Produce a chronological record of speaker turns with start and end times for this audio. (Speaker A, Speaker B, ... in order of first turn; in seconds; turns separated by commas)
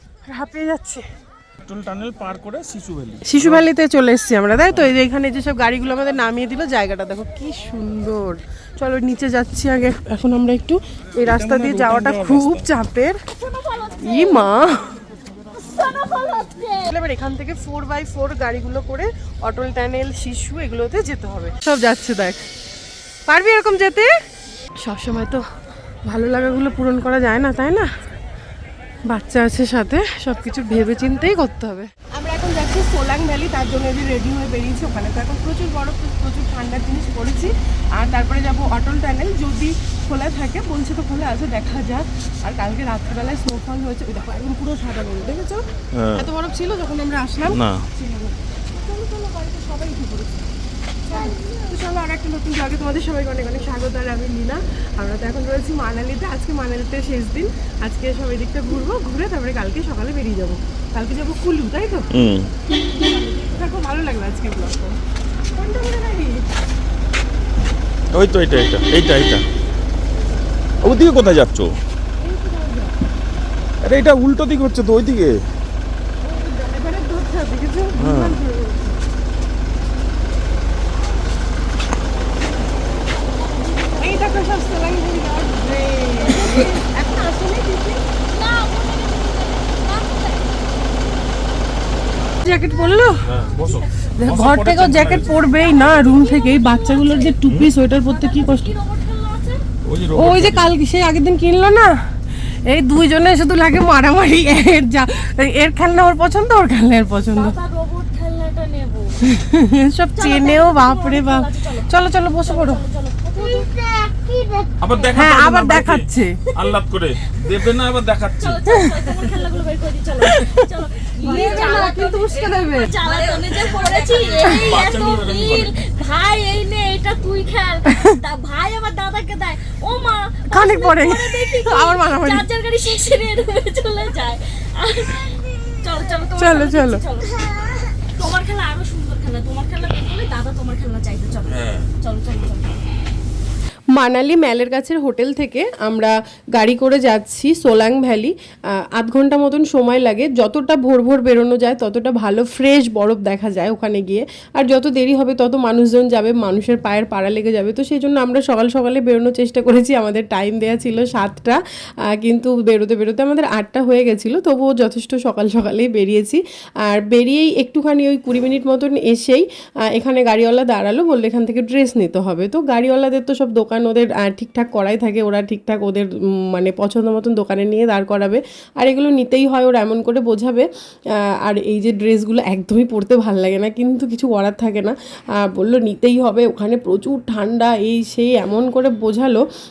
Speaker A: 0.3-1.0, Speaker B: 1.6-3.7, Speaker A: 3.3-13.2, Speaker B: 11.2-12.7, Speaker C: 13.3-14.5, Speaker A: 14.0-14.9, Speaker C: 15.6-16.9, Speaker A: 16.8-22.4, Speaker A: 23.3-24.1, Speaker A: 24.8-25.4, Speaker A: 26.1-27.9, Speaker A: 29.1-45.6, Speaker B: 45.9-46.3, Speaker A: 46.1-50.5, Speaker B: 47.5-47.8, Speaker A: 51.1-62.1, Speaker B: 62.1-62.5, Speaker A: 63.0-65.0, Speaker A: 65.5-66.4, Speaker B: 68.1-69.4, Speaker B: 70.8-71.8, Speaker A: 72.2-72.9, Speaker B: 73.8-75.4, Speaker A: 76.3-78.9, Speaker B: 78.0-78.4, Speaker A: 84.0-88.0, Speaker C: 88.3-90.5, Speaker A: 92.4-93.2, Speaker B: 93.2-95.4, Speaker A: 94.2-98.7, Speaker C: 95.5-97.4, Speaker B: 97.5-97.7, Speaker C: 97.9-99.6, Speaker B: 99.8-100.7, Speaker A: 100.1-107.5, Speaker C: 107.3-109.2, Speaker A: 109.2-112.8, Speaker C: 110.2-111.9, Speaker C: 112.4-114.7, Speaker B: 114.8-118.6, Speaker A: 115.1-116.4, Speaker C: 118.4-142.8, Speaker A: 120.2-120.6, Speaker A: 121.2-122.9, Speaker B: 124.5-125.7, Speaker A: 130.5-132.5, Speaker A: 136.4-137.0, Speaker A: 143.9-161.6, Speaker A: 162.1-180.7, Speaker A: 181.3-189.4